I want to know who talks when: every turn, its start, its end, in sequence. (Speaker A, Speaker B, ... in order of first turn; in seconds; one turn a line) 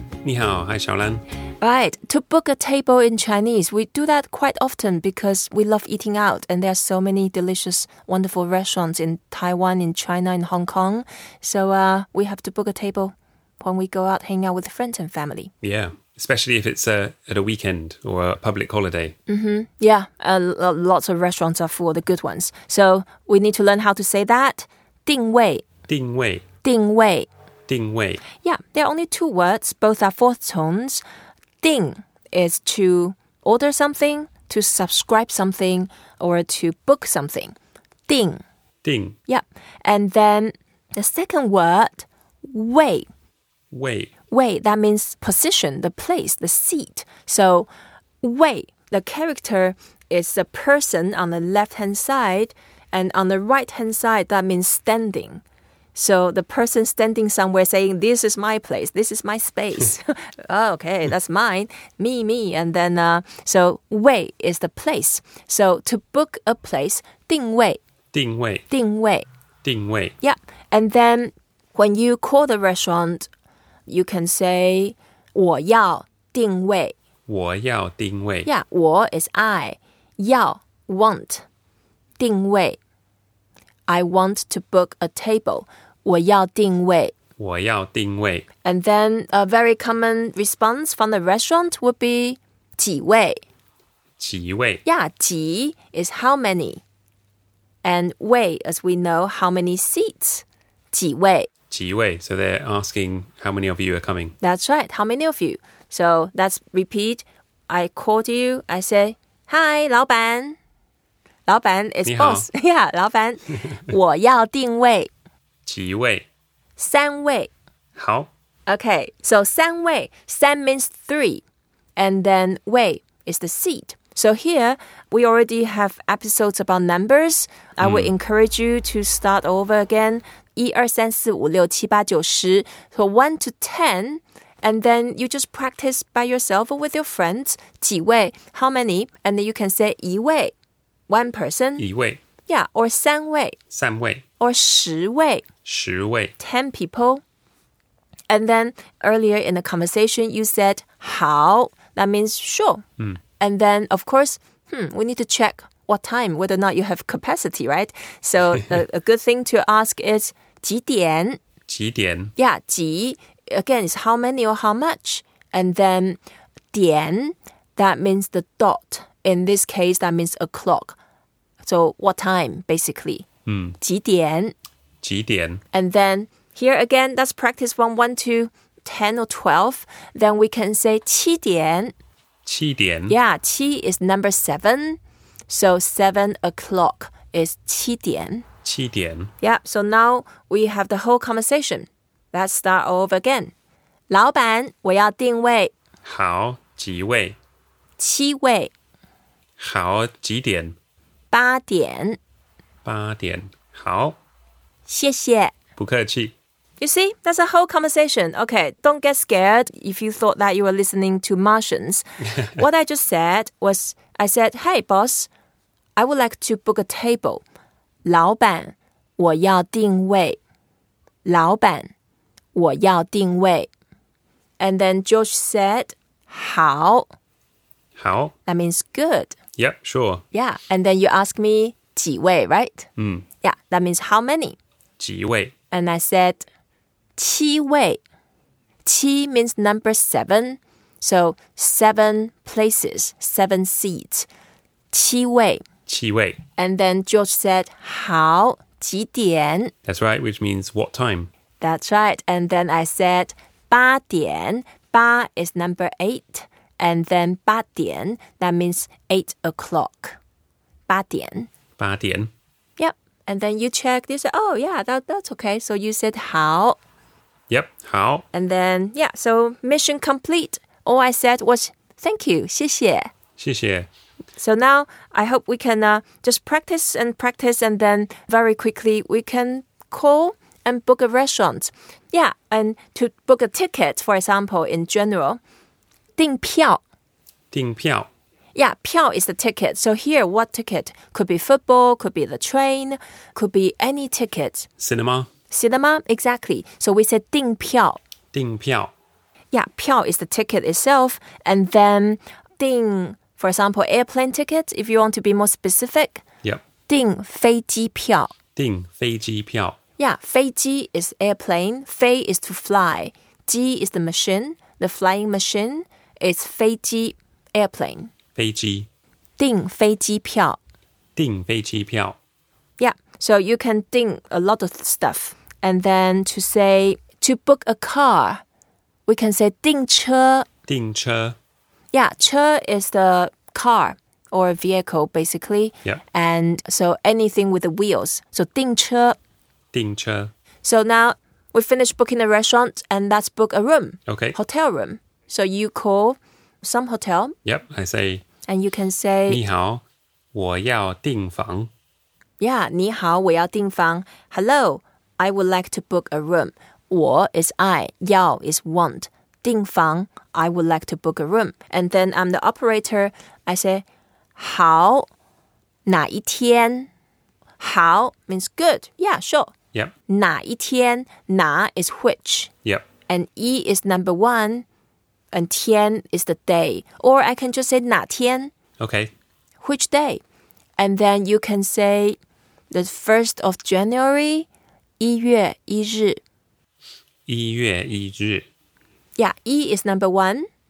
Speaker A: 0.2-1.2
Speaker B: 1.6-15.5
Speaker A: 15.6-19.1
Speaker B: 19.3-25.7
Speaker A: 25.9-26.4
Speaker B: 26.6-27.3
Speaker A: 27.7-28.2
Speaker B: 28.4-31.0
Speaker B: 31.6-37.6
Speaker B: 38.1-38.4
Speaker A: 38.8-39.2
Speaker B: 39.3-43.1
Speaker A: 43.7-44.1
Speaker B: 44.3-47.7
Speaker B: 48.2-55.4
Speaker B: 55.9-67.8
Speaker A: 68.1-68.7
Speaker B: 68.7-69.3
Speaker A: 69.6-70.2
Speaker B: 70.2-73.3
Speaker B: 73.9-76.9
Speaker A: 77.3-78.5
Speaker B: 78.5-81.4
Speaker B: 82.2-82.8
Speaker B: 83.9-87.1
Speaker A: 87.4-88.5
Speaker B: 88.6-93.4
Speaker A: 94.2-94.8
Speaker B: 94.8-96.8
Speaker B: 97.8-101.5
Speaker A: 101.7-104.4
Speaker B: 104.4-110.6
Speaker B: 111.5-115.1
Speaker A: 112.1-112.5
Speaker A: 115.7-116.2
Speaker B: 116.8-117.5
Speaker A: 118.0-118.3
Speaker B: 118.7-121.4
Speaker B: 122.0-140.5
Speaker A: 127.8-128.1
Speaker B: 141.1-141.8
Speaker A: 141.8-142.2
Speaker B: 142.5-143.6
Speaker A: 143.7-144.2
Speaker B: 144.4-145.4
Speaker A: 145.7-146.3
Speaker B: 146.4-147.2
Speaker B: 148.3-152.8
Speaker B: 153.4-161.4
Speaker A: 161.7-162.3
Speaker B: 162.4-166.2
Speaker B: 166.7-171.0
Speaker B: 171.6-173.3
Speaker A: 173.4-173.8
Speaker B: 173.8-174.6
Speaker A: 175.0-175.6
Speaker B: 175.7-181.9
Speaker A: 182.4-183.2
Speaker B: 183.1-188.4
Speaker A: 188.6-189.3
Speaker B: 189.4-193.5
Speaker B: 194.1-195.7
Speaker A: 196.0-197.4
Speaker B: 198.0-198.7
Speaker A: 199.6-200.8
Speaker B: 201.3-202.2
Speaker A: 202.8-204.2
Speaker B: 204.9-205.5
Speaker A: 205.8-206.3
Speaker B: 206.8-215.3
Speaker B: 215.9-217.4
Speaker B: 218.0-220.4
Speaker B: 221.2-221.9
Speaker B: 222.5-223.7
Speaker B: 224.6-227.1
Speaker A: 227.9-228.3
Speaker B: 228.4-229.4
Speaker A: 229.6-230.2
Speaker B: 230.3-232.9
Speaker A: 233.0-233.2
Speaker B: 233.4-234.6
Speaker A: 235.0-235.5
Speaker B: 235.7-236.4
Speaker B: 237.2-238.0
Speaker B: 238.8-244.3
Speaker B: 244.9-245.6
Speaker A: 245.9-246.4
Speaker B: 246.6-249.7
Speaker A: 249.8-251.3
Speaker B: 251.6-260.2
Speaker B: 260.9-261.5
Speaker A: 261.8-262.3
Speaker B: 262.8-266.8
Speaker A: 267.5-268.3
Speaker B: 268.3-273.1
Speaker A: 273.4-273.9
Speaker B: 274.4-285.4
Speaker B: 286.2-286.8
Speaker A: 287.5-288.1
Speaker B: 288.6-294.7
Speaker A: 294.8-295.3
Speaker B: 295.5-298.0
Speaker A: 298.3-298.9
Speaker B: 299.5-306.2
Speaker B: 306.9-308.3
Speaker A: 308.6-309.8
Speaker B: 310.0-318.1
Speaker A: 318.4-318.9
Speaker B: 319.4-320.6
Speaker A: 321.2-322.2
Speaker B: 322.8-328.4
Speaker B: 329.1-330.5
Speaker A: 330.7-331.4
Speaker B: 331.9-339.2
Speaker A: 339.7-340.3
Speaker B: 340.6-347.4
Speaker A: 344.1-344.4
Speaker A: 347.4-348.2
Speaker B: 348.5-349.4
Speaker A: 349.3-351.7
Speaker B: 352.4-363.9
Speaker B: 364.4-365.1
Speaker B: 365.9-366.9
Speaker B: 367.6-369.5
Speaker B: 370.1-372.5
Speaker B: 373.1-374.6
Speaker B: 375.3-378.5
Speaker A: 378.8-379.1
Speaker B: 379.6-380.2
Speaker B: 380.8-382.2
Speaker B: 382.7-384.5
Speaker B: 385.0-386.2
Speaker A: 387.3-388.5
Speaker B: 389.2-390.5